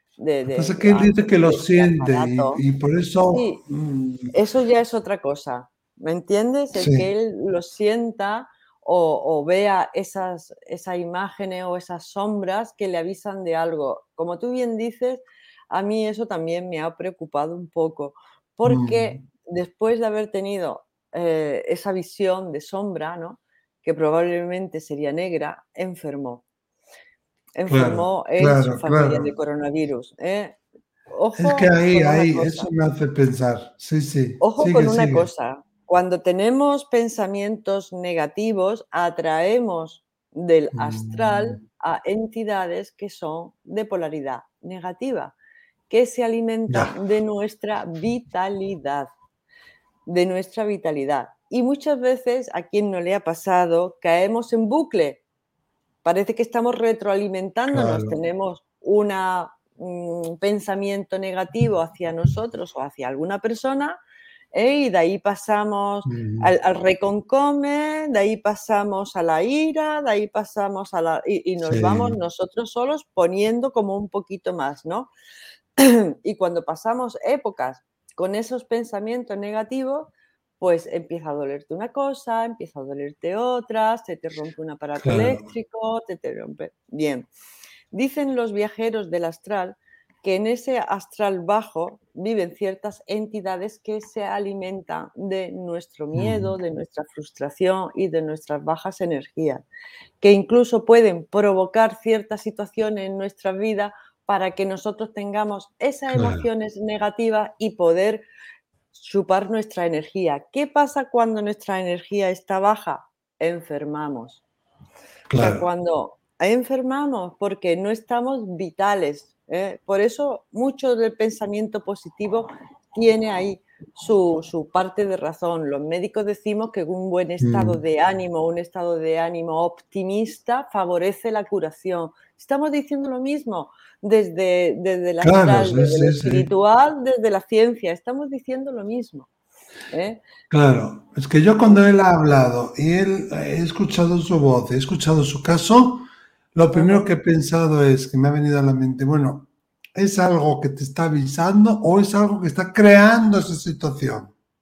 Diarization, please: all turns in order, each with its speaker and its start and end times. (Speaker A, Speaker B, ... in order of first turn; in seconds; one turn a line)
Speaker A: 0.2-2.6
Speaker B: 0.5-4.3
Speaker A: 3.3-3.6
Speaker A: 4.3-26.4
Speaker B: 6.7-7.1
Speaker B: 18.6-19.2
Speaker A: 27.5-30.6
Speaker B: 27.7-29.3
Speaker A: 31.1-32.7
Speaker B: 31.4-35.3
Speaker A: 34.4-45.3
Speaker B: 40.7-41.6
Speaker A: 45.9-49.1
Speaker B: 46.7-47.0
Speaker A: 50.0-55.2
Speaker A: 56.0-64.0
Speaker B: 57.7-58.1
Speaker A: 64.5-75.1
Speaker B: 66.0-66.5
Speaker B: 71.6-72.2
Speaker A: 75.8-87.3
Speaker B: 85.0-85.4
Speaker A: 87.9-99.6
Speaker B: 96.1-96.5
Speaker A: 100.2-108.2
Speaker B: 106.1-106.5
Speaker A: 108.9-114.4
Speaker B: 115.3-115.6
Speaker A: 115.3-139.3
Speaker B: 127.4-127.8
Speaker B: 135.2-136.5
Speaker A: 139.9-140.2
Speaker B: 140.5-154.3
Speaker A: 146.7-147.1